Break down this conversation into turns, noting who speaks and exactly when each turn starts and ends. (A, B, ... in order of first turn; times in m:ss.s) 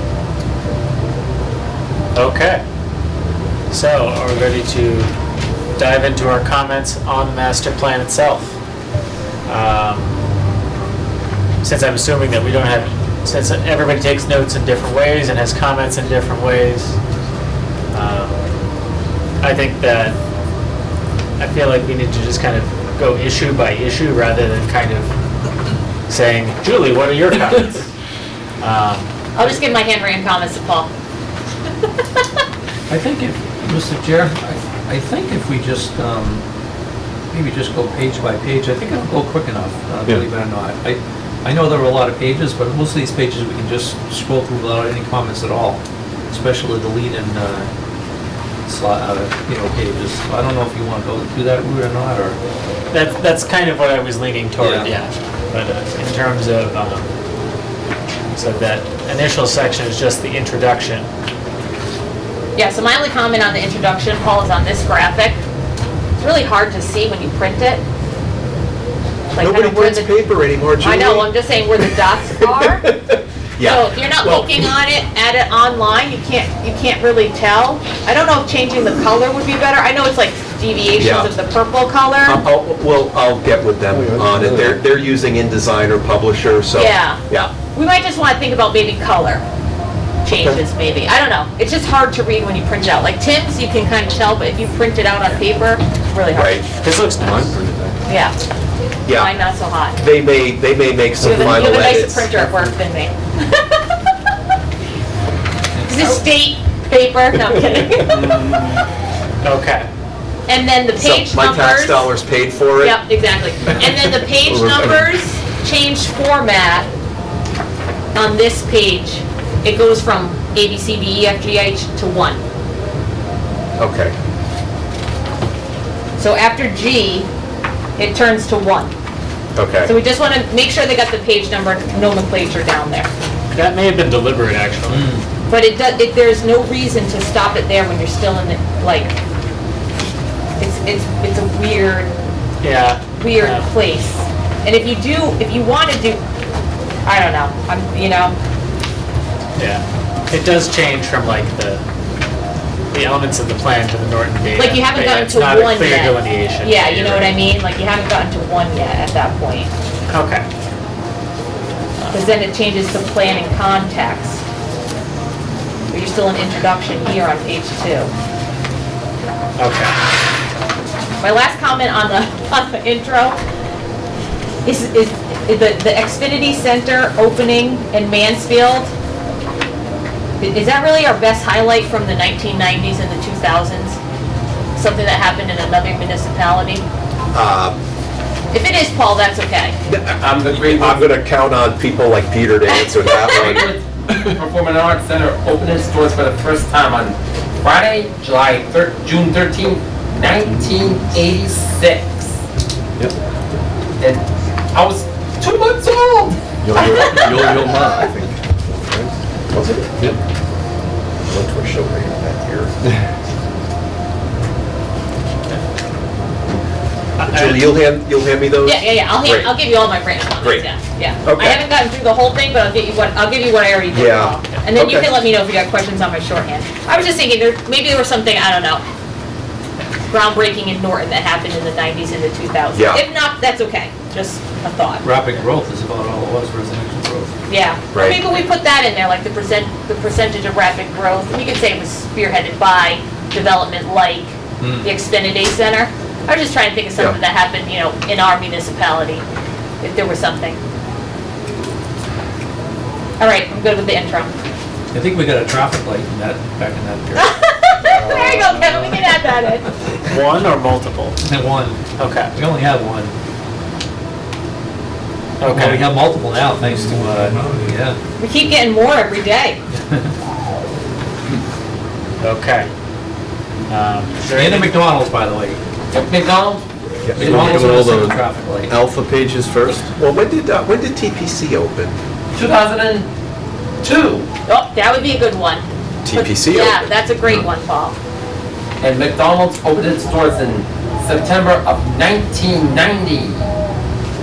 0:02.2-0:02.6 A
0:03.7-0:05.1 A
0:05.8-0:08.6 A
0:09.5-0:10.2 A
0:11.6-0:17.0 A
0:17.9-0:18.5 A
0:19.4-0:20.2 A
0:21.4-0:25.1 A
0:26.1-0:27.9 A
0:28.6-0:29.1 A
0:29.4-0:30.9 B
0:32.9-0:36.4 C
0:37.3-0:47.7 C
0:48.7-0:52.4 C
0:52.9-0:57.1 A
0:54.6-0:54.9 C
0:58.3-1:01.1 A
1:02.6-1:05.4 B
1:06.2-1:07.8 B
1:09.3-1:10.2 B
1:09.4-1:14.7 D
1:10.8-1:12.9 B
1:13.6-1:22.4 B
1:21.0-1:21.3 D
1:22.2-1:27.5 D
1:23.9-1:24.8 E
1:26.7-1:27.2 B
1:27.7-1:29.4 B
1:30.2-1:36.6 B
1:30.3-1:30.6 D
1:36.3-1:36.6 D
1:36.8-1:37.6 A
1:37.4-1:38.0 E
1:38.1-1:38.4 B
1:39.1-1:39.3 D
1:39.1-1:40.0 B
1:40.0-1:42.5 D
1:41.2-1:43.8 B
1:45.9-1:48.3 B
1:48.2-1:48.7 F
1:49.4-1:49.9 A
1:50.5-1:52.1 B
1:51.0-1:53.0 D
1:52.8-1:56.9 B
1:53.8-1:55.1 D
1:58.2-2:02.4 B
2:03.8-2:04.1 D
2:06.2-2:07.3 B
2:08.0-2:08.9 B
2:09.6-2:09.9 D
2:09.8-2:13.1 B
2:13.5-2:15.1 A
2:14.9-2:15.2 C
2:15.5-2:19.2 B
2:20.6-2:22.1 B
2:22.6-2:23.7 A
2:23.2-2:26.2 B
2:27.0-2:28.4 B
2:29.6-2:31.8 A
2:32.9-2:37.4 A
2:34.5-2:39.7 B
2:40.1-2:40.4 A
2:42.1-2:44.4 B
2:45.9-2:48.1 B
2:49.6-2:50.0 A
2:51.2-2:53.4 B
2:54.6-2:58.9 B
3:00.4-3:04.0 B
3:04.8-3:06.8 B
3:07.3-3:07.8 D
3:08.5-3:09.8 B
3:09.9-3:13.7 D
3:10.2-3:11.2 F
3:12.9-3:13.5 B
3:13.3-3:22.3 F
3:24.0-3:27.2 F
3:26.7-3:28.2 E
3:26.7-3:28.1 D
3:27.3-3:28.0 C
3:28.9-3:30.1 D
3:31.3-3:32.7 D
3:37.2-3:37.7 A
3:37.3-3:39.5 D
3:38.6-3:48.8 B
3:40.4-3:40.7 D
3:41.2-3:41.6 D
3:43.9-3:45.2 D
3:50.1-3:55.0 B
3:52.7-3:53.0 D
3:55.0-3:57.4 C
3:57.5-4:09.2 B
3:57.9-3:58.2 D
4:04.6-4:05.0 C
4:09.8-4:10.6 B
4:13.2-4:14.3 B
4:14.9-4:17.3 C
4:17.2-4:19.7 B
4:17.8-4:18.6 A
4:18.8-4:19.2 C
4:20.1-4:21.2 A
4:21.2-4:23.2 C
4:22.0-4:22.3 A
4:25.4-4:25.9 A
4:25.4-4:28.0 C
4:26.7-4:27.7 E
4:28.2-4:29.6 B
4:29.7-4:30.1 C
4:32.2-4:32.7 A
4:33.7-4:34.8 A
4:34.3-4:35.6 C
4:35.9-4:36.6 F
4:37.1-4:42.0 D
4:37.2-4:38.8 C
4:37.2-4:37.8 F
4:42.3-4:43.1 F
4:43.8-4:44.3 F
4:44.5-4:48.0 B
4:46.0-4:46.9 D
4:48.8-4:53.5 F